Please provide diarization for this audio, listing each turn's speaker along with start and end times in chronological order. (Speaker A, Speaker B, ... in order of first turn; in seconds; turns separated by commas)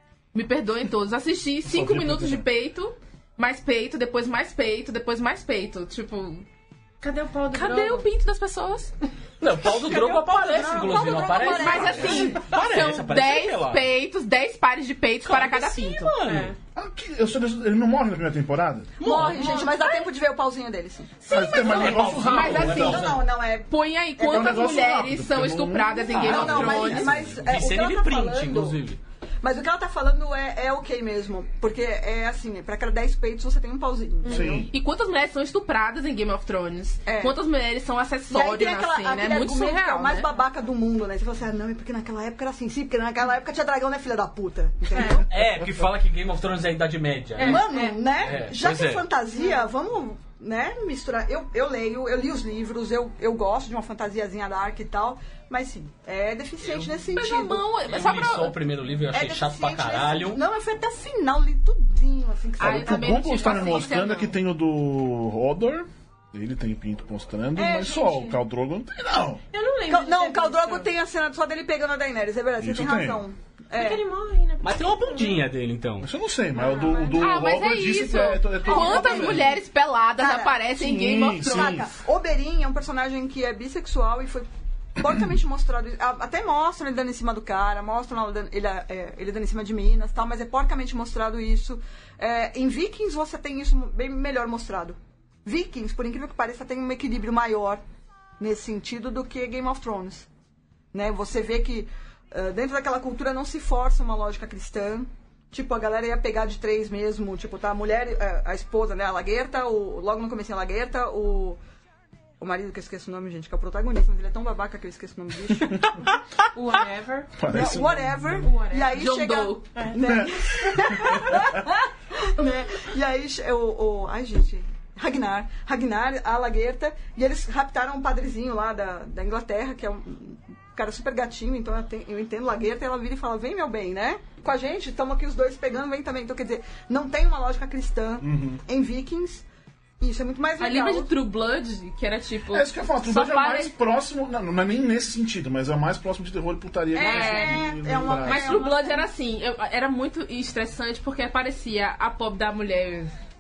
Speaker A: 0.3-6.4, Speaker B: 1.6-2.4, Speaker C: 7.0-8.1, Speaker A: 7.5-8.9, Speaker D: 9.4-13.9, Speaker E: 9.7-12.4, Speaker A: 9.9-16.2, Speaker D: 15.2-16.5, Speaker C: 16.2-16.6, Speaker B: 16.8-18.9, Speaker E: 19.0-21.2, Speaker D: 19.0-19.9, Speaker A: 21.2-27.3, Speaker B: 21.3-23.0, Speaker D: 21.5-23.3, Speaker E: 22.2-24.7, Speaker B: 24.2-27.5, Speaker D: 26.1-29.0, Speaker E: 26.1-28.8, Speaker E: 29.4-34.7, Speaker B: 34.3-34.7, Speaker A: 34.7-40.3, Speaker E: 37.0-37.4, Speaker E: 38.3-45.3, Speaker C: 44.9-45.2, Speaker D: 45.3-47.6, Speaker C: 47.4-48.1, Speaker E: 47.4-57.6, Speaker D: 48.2-49.1, Speaker A: 57.1-58.6, Speaker D: 57.9-60.4, Speaker E: 59.1-64.0, Speaker A: 62.6-64.3, Speaker B: 62.6-69.4, Speaker E: 67.5-68.3, Speaker C: 69.5-70.9, Speaker E: 69.9-74.0, Speaker B: 72.6-73.2, Speaker C: 73.7-75.3, Speaker D: 74.6-76.1, Speaker B: 76.0-79.5, Speaker C: 76.7-77.1, Speaker A: 77.1-81.8, Speaker E: 78.7-79.5, Speaker E: 80.2-80.6, Speaker B: 80.8-81.9, Speaker E: 81.4-84.5, Speaker E: 85.0-97.8, Speaker E: 98.4-100.3, Speaker E: 100.9-111.6, Speaker E: 112.4-115.9, Speaker C: 116.5-117.3, Speaker B: 117.3-118.4, Speaker E: 117.5-139.4, Speaker C: 118.3-119.0, Speaker A: 118.8-119.8, Speaker C: 119.8-120.0, Speaker B: 120.0-121.5, Speaker B: 138.2-138.6, Speaker E: 140.0-141.1, Speaker A: 140.6-143.7, Speaker B: 142.5-148.6, Speaker E: 146.9-149.1, Speaker A: 146.9-153.1